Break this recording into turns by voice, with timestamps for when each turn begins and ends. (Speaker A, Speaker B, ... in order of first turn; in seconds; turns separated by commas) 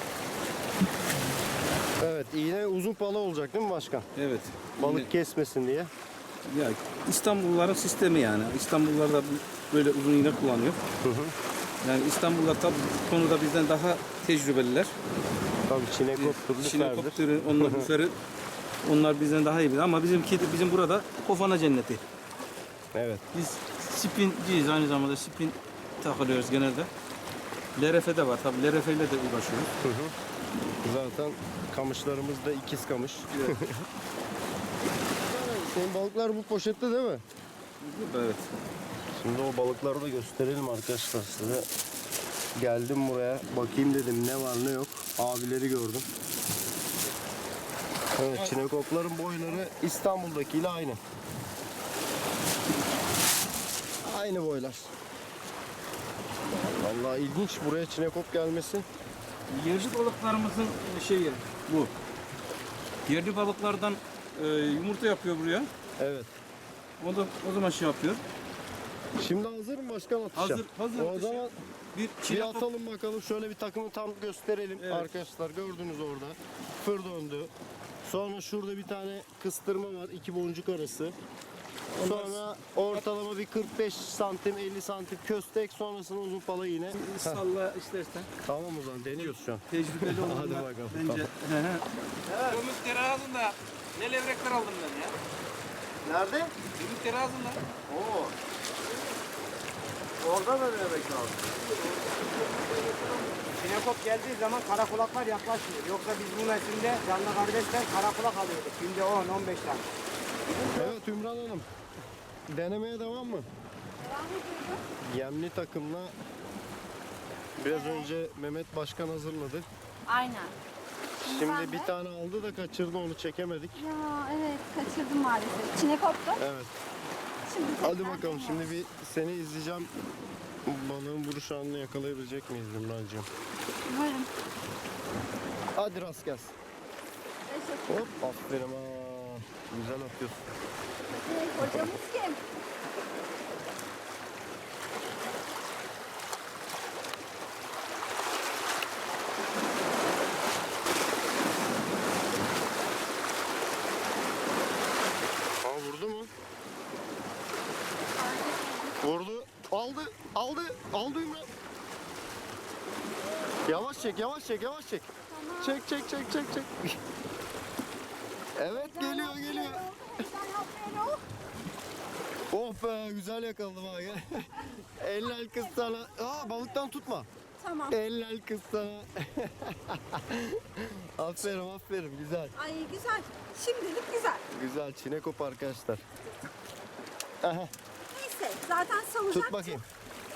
Speaker A: 2.0-4.1, Speaker B: 4.2-5.1, Speaker A: 4.8-5.9, Speaker B: 6.5-10.8, Speaker A: 11.0-11.3, Speaker B: 11.8-14.9, Speaker A: 15.7-17.9, Speaker B: 16.1-18.1, Speaker B: 18.8-22.0, Speaker A: 22.9-23.2, Speaker B: 23.3-26.9, Speaker B: 27.8-29.7, Speaker A: 29.8-30.1, Speaker A: 30.8-33.9, Speaker B: 33.3-33.6, Speaker A: 35.2-37.2, Speaker B: 37.8-38.5, Speaker A: 39.1-41.7, Speaker A: 42.5-46.1, Speaker A: 48.1-51.0, Speaker A: 54.0-54.9, Speaker A: 56.7-58.9, Speaker B: 59.5-61.9, Speaker B: 63.1-65.7, Speaker A: 66.0-66.3, Speaker B: 67.0-68.2, Speaker A: 69.2-71.5, Speaker B: 70.3-72.7, Speaker A: 72.2-77.5, Speaker B: 74.8-75.1, Speaker A: 78.0-81.2, Speaker B: 81.9-83.0, Speaker A: 82.0-87.4, Speaker B: 86.9-88.3, Speaker A: 88.4-91.3, Speaker B: 89.2-91.8, Speaker A: 92.2-92.6, Speaker B: 92.5-95.2, Speaker A: 96.0-96.5, Speaker B: 96.8-97.6, Speaker A: 97.9-98.3, Speaker A: 100.2-101.5, Speaker B: 101.7-102.7, Speaker C: 103.4-109.8, Speaker A: 110.7-111.7, Speaker A: 112.5-113.5, Speaker D: 114.0-114.8, Speaker A: 115.0-116.1, Speaker A: 117.6-119.7, Speaker D: 117.7-118.1, Speaker D: 120.1-120.5, Speaker D: 121.2-121.9, Speaker A: 121.2-123.8, Speaker D: 123.7-126.4, Speaker A: 126.3-126.7, Speaker D: 127.4-128.7, Speaker A: 127.8-129.9, Speaker A: 130.6-133.3, Speaker D: 133.9-134.3, Speaker A: 135.7-136.5, Speaker D: 137.5-138.0, Speaker A: 137.9-140.5, Speaker D: 141.0-142.4, Speaker A: 155.6-156.3, Speaker D: 158.1-159.0, Speaker A: 159.0-161.5, Speaker A: 163.6-167.0, Speaker D: 165.3-165.9, Speaker A: 168.6-169.8, Speaker D: 168.7-171.2, Speaker A: 172.5-177.3, Speaker D: 175.3-176.5, Speaker D: 177.6-178.0, Speaker A: 177.9-182.5, Speaker D: 182.5-184.4, Speaker A: 184.5-186.0, Speaker A: 187.4-187.7, Speaker D: 188.1-189.8, Speaker A: 189.3-189.8